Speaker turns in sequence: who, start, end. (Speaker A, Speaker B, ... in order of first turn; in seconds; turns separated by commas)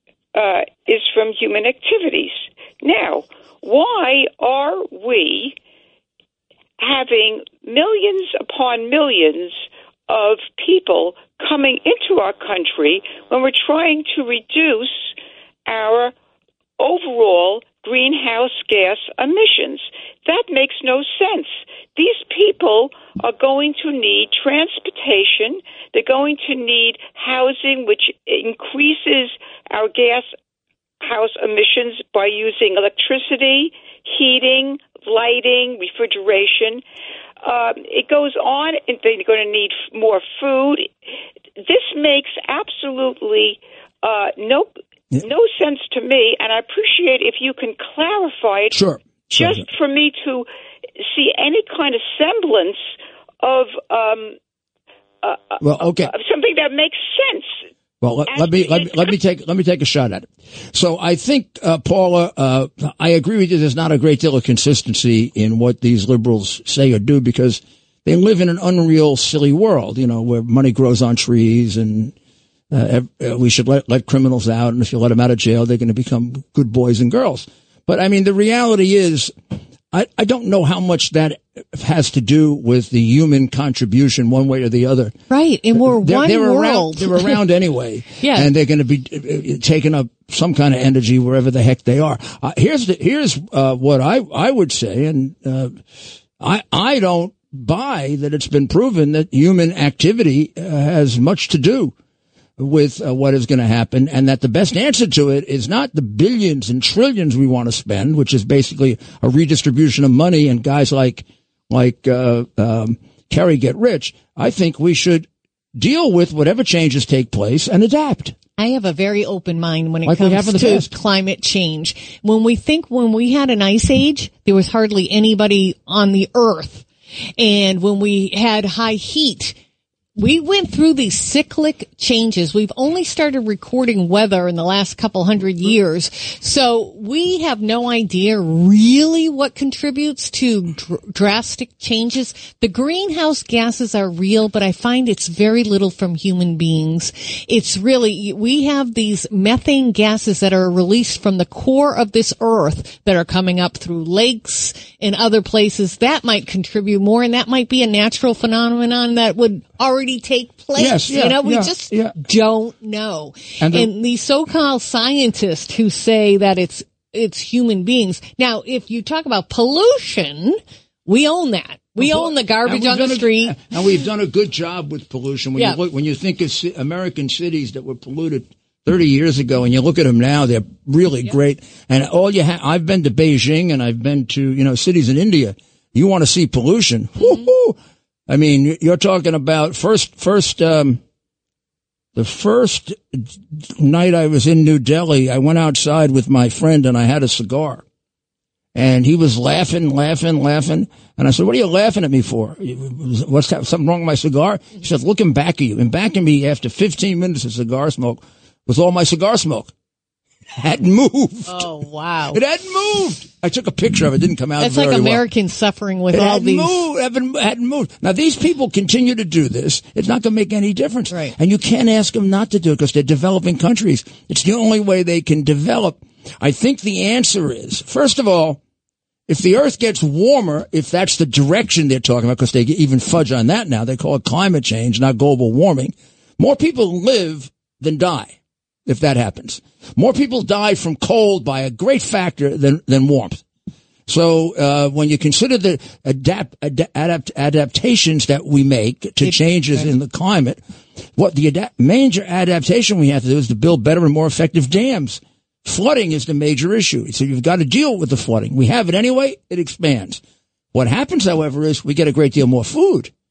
Speaker A: 0.3-5.6, Speaker A: 6.8-15.1, Speaker A: 15.7-16.1, Speaker A: 16.8-30.3, Speaker A: 31.0-36.8, Speaker A: 37.4-40.9, Speaker A: 41.6-50.5, Speaker B: 48.7-49.7, Speaker A: 51.0-52.9, Speaker A: 53.4-54.4, Speaker A: 55.2-57.6, Speaker B: 55.6-56.1, Speaker B: 58.0-72.2, Speaker A: 58.3-59.2, Speaker B: 72.7-79.3, Speaker B: 79.9-85.2, Speaker C: 85.3-87.4, Speaker B: 85.7-95.8, Speaker C: 88.2-88.5, Speaker B: 96.4-101.9, Speaker B: 102.6-118.4, Speaker C: 118.6-126.9, Speaker B: 120.0-120.9, Speaker C: 127.4-129.6, Speaker C: 130.2-173.7, Speaker B: 160.8-162.2, Speaker B: 163.6-163.9, Speaker B: 172.0-187.8, Speaker B: 188.3-191.0, Speaker B: 192.2-197.8, Speaker B: 198.8-209.7, Speaker B: 210.5-211.7, Speaker C: 211.5-212.4, Speaker B: 212.3-215.2, Speaker C: 214.6-216.8, Speaker B: 216.1-228.6, Speaker C: 221.1-221.3, Speaker B: 229.3-238.3, Speaker B: 238.9-243.4, Speaker B: 244.1-250.6, Speaker C: 249.2-249.9, Speaker B: 251.2-260.2, Speaker B: 260.7-263.1